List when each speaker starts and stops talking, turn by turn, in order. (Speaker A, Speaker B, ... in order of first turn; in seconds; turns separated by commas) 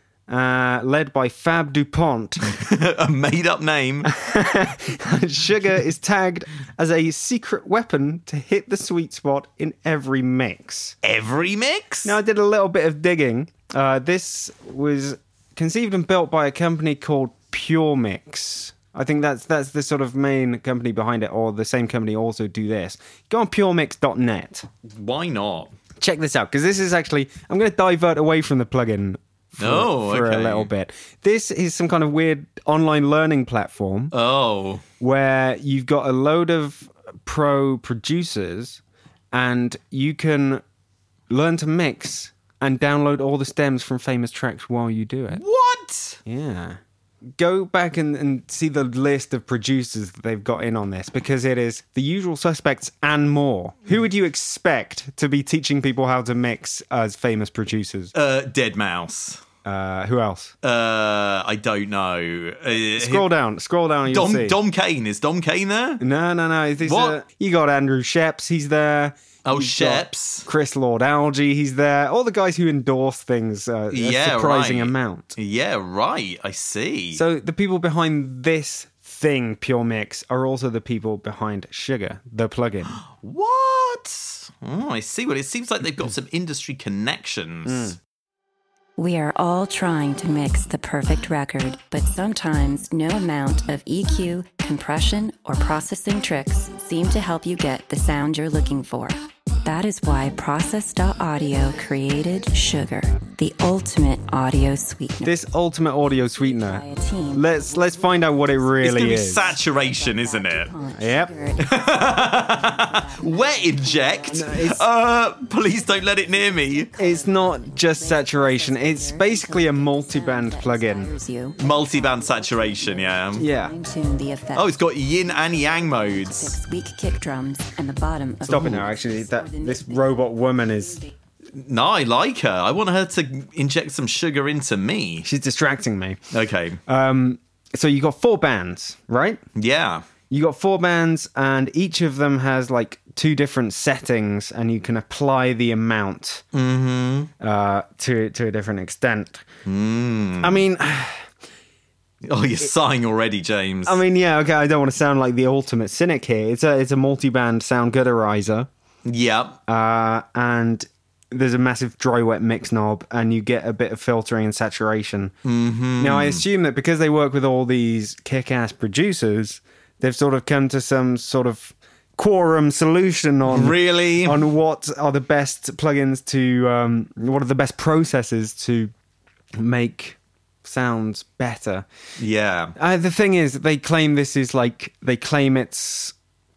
Speaker A: 0.3-2.4, Speaker B: 2.4-4.1, Speaker A: 4.0-10.9, Speaker B: 11.0-12.1, Speaker A: 12.0-24.7, Speaker B: 24.8-25.7, Speaker A: 26.0-34.1, Speaker B: 29.6-30.7, Speaker B: 34.1-34.8, Speaker A: 35.0-38.8, Speaker A: 39.3-40.6, Speaker A: 41.3-45.4, Speaker B: 45.3-46.2, Speaker A: 46.2-46.8, Speaker A: 47.4-58.1, Speaker B: 58.1-59.4, Speaker A: 59.6-60.5, Speaker B: 60.6-63.3, Speaker A: 63.0-64.6, Speaker B: 64.1-66.0, Speaker A: 66.0-75.3, Speaker B: 66.8-67.2, Speaker B: 69.4-70.5, Speaker B: 73.9-77.2, Speaker A: 77.1-82.9, Speaker B: 82.9-88.0, Speaker A: 87.7-88.0, Speaker C: 89.0-105.4, Speaker A: 105.2-109.5, Speaker C: 106.3-114.8, Speaker B: 108.8-110.7, Speaker A: 111.0-111.3, Speaker B: 111.6-116.9, Speaker A: 114.3-114.8, Speaker C: 115.5-131.1, Speaker A: 117.0-121.1, Speaker B: 121.6-123.5, Speaker A: 123.3-123.7, Speaker B: 124.5-126.6, Speaker A: 128.4-131.0, Speaker B: 128.5-128.8, Speaker B: 131.5-135.3, Speaker A: 135.2-136.2, Speaker B: 136.3-136.8, Speaker A: 136.8-139.4, Speaker B: 139.6-140.1, Speaker A: 140.3-146.4, Speaker B: 146.5-147.3, Speaker A: 147.4-149.4, Speaker B: 149.6-150.6, Speaker A: 150.4-151.3, Speaker B: 152.2-154.0, Speaker A: 153.8-158.7, Speaker B: 159.1-159.6, Speaker A: 159.7-165.3, Speaker B: 165.4-166.4, Speaker A: 166.0-178.9, Speaker B: 173.4-174.4, Speaker A: 179.6-181.8, Speaker B: 182.2-182.7, Speaker A: 182.8-186.1